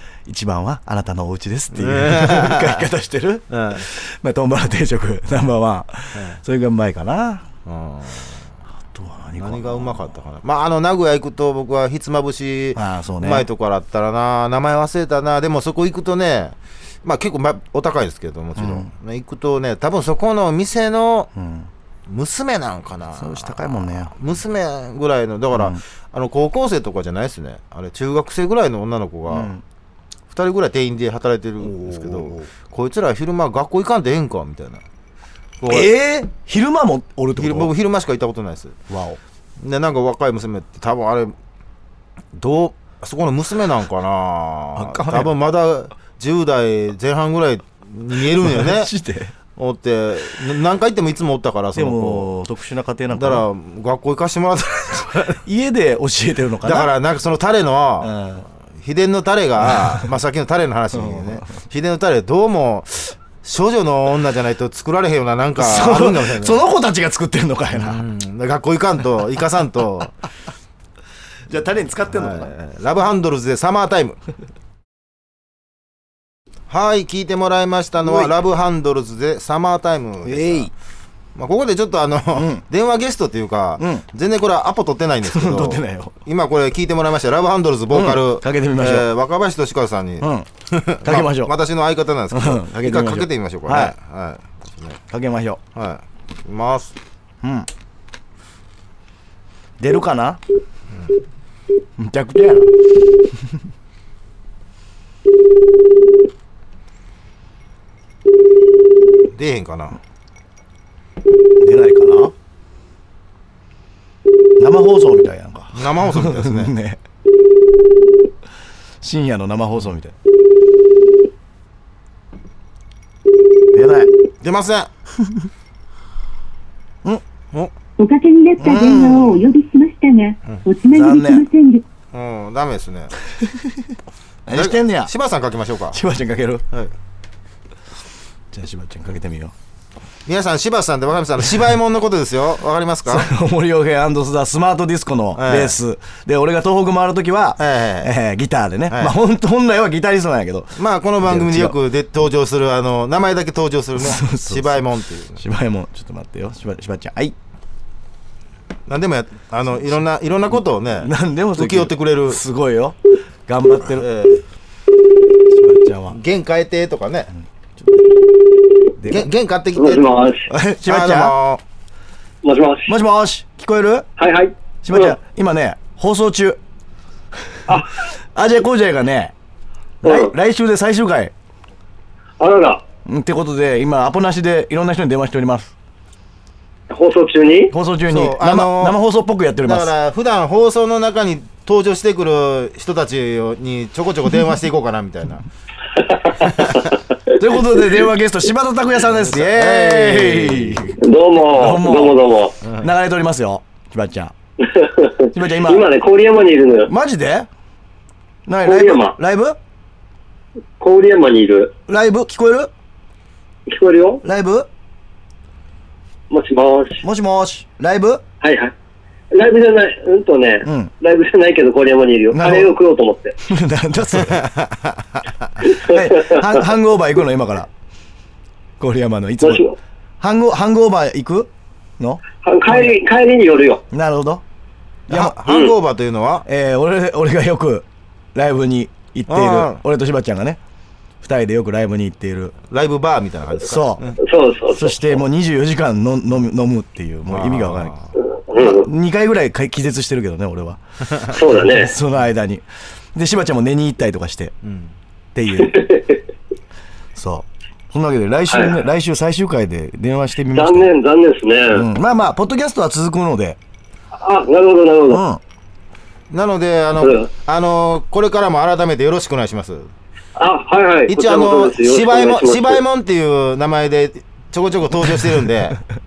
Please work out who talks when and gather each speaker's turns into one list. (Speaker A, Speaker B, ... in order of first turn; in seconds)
Speaker A: 0.3-7.5, 8.9-10.1, 12.7-13.4, 18.6-18.9, 21.3-21.7, 23.1-24.1, 25.5-25.8, 29.3-29.6, 31.6-32.5, 35.7-37.7, 38.9-39.2, 44.7-45.3, 48.4-49.3, 51.7-53.4, 55.4-56.9, 58.0-58.4, 59.6-60.1, 60.9-61.4, 65.6-68.0, 71.5-72.5, 78.0-78.3, 80.2-80.7, 82.3-82.6, 83.8-84.0, 85.2-86.1, 87.9-89.0, 90.2-90.5, 91.0-91.5, 92.3-93.9, 95.1-95.6, 97.4-97.7, 99.8-100.4, 102.0-102.8, 103.3-103.5, 111.6-112.3, 114.6-117.0, 119.0-120.1, 123.7-124.1, 128.6-129.4, 130.9-131.4, 133.3-135.1, 135.9-136.6, 138.5-139.5, 143.1-151.7, 153.9-154.8, 155.4-157.3, 161.0-164.1, 165.5-166.2, 167.8-168.1, 169.0-169.3, 170.5-171.3, 172.9-174.1, 174.8-176.6, 178.3-179.3, 180.0-181.3, 183.1-185.7, 187.7-189.9, 197.3-201.0, 201.5-202.2, 202.8-204.3, 205.3-205.9, 206.9-207.5, 208.4-209.6, 211.9-212.7, 214.2-214.7, 217.0-218.2, 220.6-220.9, 222.3-222.7, 223.4-224.5, 225.6-227.7, 228.8-229.6, 230.2-232.9, 233.9-234.4, 235.1-235.4, 236.4-240.6, 241.2-242.5, 243.6-244.1, 244.7-247.9, 248.6-254.5, 255.3-255.8, 257.1-260.9, 261.7-263.6, 265.1-265.4
Speaker B: 1.7-2.8, 3.5-3.8, 7.7-8.4, 9.4-21.3, 22.1-29.5, 30.3-34.8, 35.6-35.9, 37.4-38.8, 39.6-41.3, 42.4-48.9, 49.6-52.3, 53.1-55.4, 56.6-58.1, 58.8-66.6, 67.7-70.1, 72.1-74.2, 76.7-80.7, 81.3-95.0, 95.7-96.9, 109.3-110.0, 115.7-116.7, 124.4-124.9, 132.1-133.1, 134.5-136.0, 140.2-143.3, 145.3-145.8, 147.6-148.1, 148.9-149.1, 150.8-155.4, 158.9-162.4, 163.9-164.4, 166.1-167.3, 169.0-170.2, 170.8-171.6, 188.1-189.0, 189.6-195.4, 196.4-196.9, 199.2-200.8, 224.3-224.7, 235.1-236.4, 239.3-239.8, 242.7-244.2, 247.3-248.1, 254.6-254.9, 266.3-269.9, 271.1-275.8
Speaker C: 128.0-131.8
Speaker D: 169.8-170.5, 172.4-172.9, 174.2-175.2, 180.0-180.3, 182.4-182.8, 186.9-187.7, 196.0-196.8, 201.0-202.5, 204.6-206.9, 208.6-209.2, 210.8-211.7, 213.7-214.2, 216.3-217.0, 218.4-218.7, 219.3-223.4, 225.6-226.5, 229.4-229.8, 232.4-233.8, 235.5-235.7, 244.2-245.1, 248.5-248.9, 251.3-251.9, 255.6-256.2, 258.5-258.8, 260.5-261.9, 264.1-265.2, 267.0-267.3, 270.4-272.8